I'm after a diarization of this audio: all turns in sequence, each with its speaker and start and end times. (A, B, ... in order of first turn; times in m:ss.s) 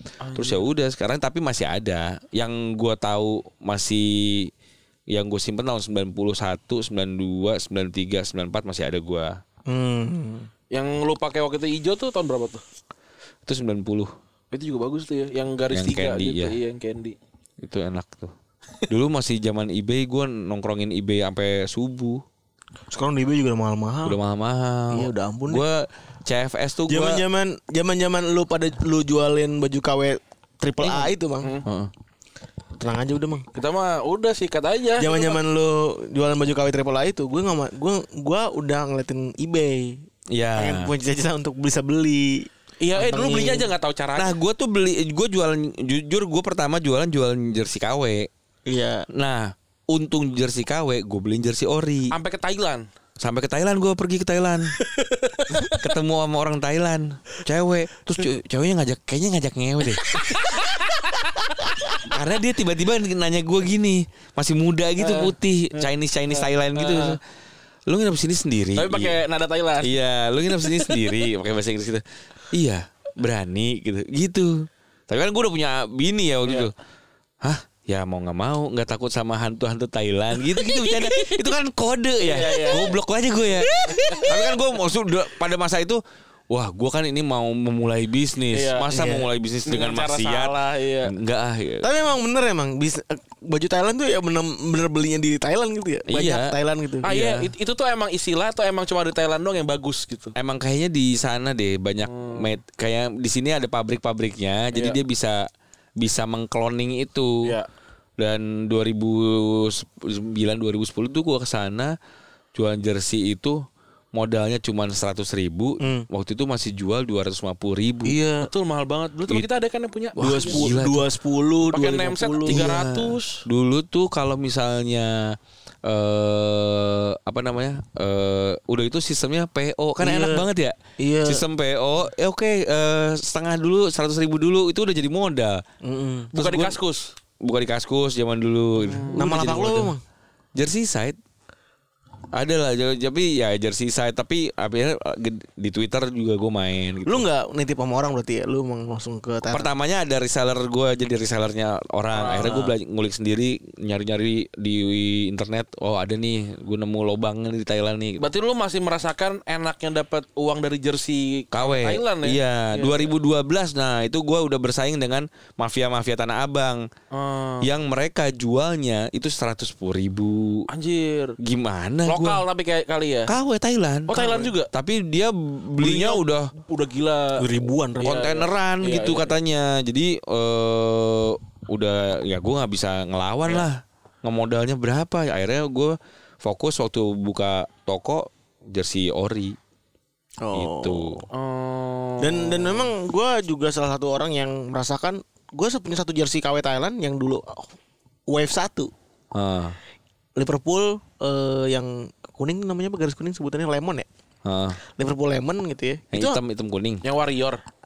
0:00.2-0:00.6 A
0:00.3-0:04.5 B
0:05.1-0:09.4 B
0:09.7-0:10.5 C
0:10.7-0:12.6 A
0:13.4-0:14.1 B
0:14.5-0:17.2 A
0:15.7-0:16.5 B
0:17.6-0:18.3 B
0:18.9-0:22.2 B
0:22.9-0:24.2 C
0:24.0-0:27.2 B
0:24.9-0:25.6 C
0:26.9-0:31.6 C
0:30.8-0:31.1 B
0:31.6-0:31.9 B
0:32.8-0:33.4 C
0:33.5-0:35.4 A
0:35.0-0:40.0 C
0:40.3-0:40.9 B
0:40.6-0:43.7 C
0:42.8-0:44.3 A
0:44.2-0:48.3 B
0:48.6-0:49.0 C
0:49.1-0:52.1 B
0:52.1-0:52.8 A
0:53.2-0:54.8 B
0:54.9-0:55.8 A
0:55.6-1:00.5 B
1:00.0-1:01.6 A
1:02.0-1:07.2 B
1:05.0-1:07.2 A
1:07.9-1:09.2 B
1:08.8-1:11.1 A
1:09.8-1:16.7 B
1:17.4-1:30.5 B
1:22.2-1:23.0 A
1:23.7-1:24.3 A
1:23.9-1:24.3 C
1:28.5-1:28.9 A
1:28.9-1:29.3 C
1:29.6-1:31.1 A
1:31.0-1:31.9 B
1:31.8-1:37.0 C
1:36.1-1:36.5 B
1:37.0-1:40.3 A
1:37.0-1:37.5 B
1:40.3-1:47.5 B
1:42.1-1:42.5 A
1:47.4-1:47.7 A
1:48.2-1:51.9 B
1:52.5-1:53.6 B
1:54.1-1:58.2 B
1:55.8-1:56.1 C
1:58.0-1:58.5 C
1:58.4-2:00.7 A
2:00.2-2:01.0 B
2:00.2-2:02.7 C
2:01.7-2:03.4 A
2:02.5-2:15.6 B
2:10.0-2:11.4 C
2:15.8-2:16.3 C
2:16.3-2:16.8 B
2:16.3-2:17.1 A
2:17.4-2:19.9 B
2:18.8-2:19.4 A
2:19.1-2:20.0 C
2:20.6-2:21.2 B
2:22.3-2:27.2 B
2:27.0-2:29.7 C
2:29.5-2:38.3 B
2:32.1-2:32.7 A
2:38.2-2:43.1 A
2:41.5-2:46.9 B
2:47.1-2:47.7 A
2:47.6-2:50.7 B
2:50.7-2:51.4 A
2:51.4-2:52.4 B
2:52.0-2:53.3 A
2:53.3-2:56.5 B
2:54.1-2:54.7 A
2:54.2-2:54.5 C
2:55.8-2:57.5 A
2:57.4-2:58.3 C
2:58.0-2:59.4 A
2:58.0-3:09.6 B
3:10.4-3:11.2 C
3:10.5-3:11.2 B
3:11.3-3:12.9 A
3:12.2-3:17.7 C
3:18.3-3:18.9 C
3:19.3-3:19.8 B
3:20.4-3:24.1 C
3:24.4-3:24.8 B
3:24.9-3:26.4 C
3:26.1-3:27.0 B
3:27.0-3:27.6 A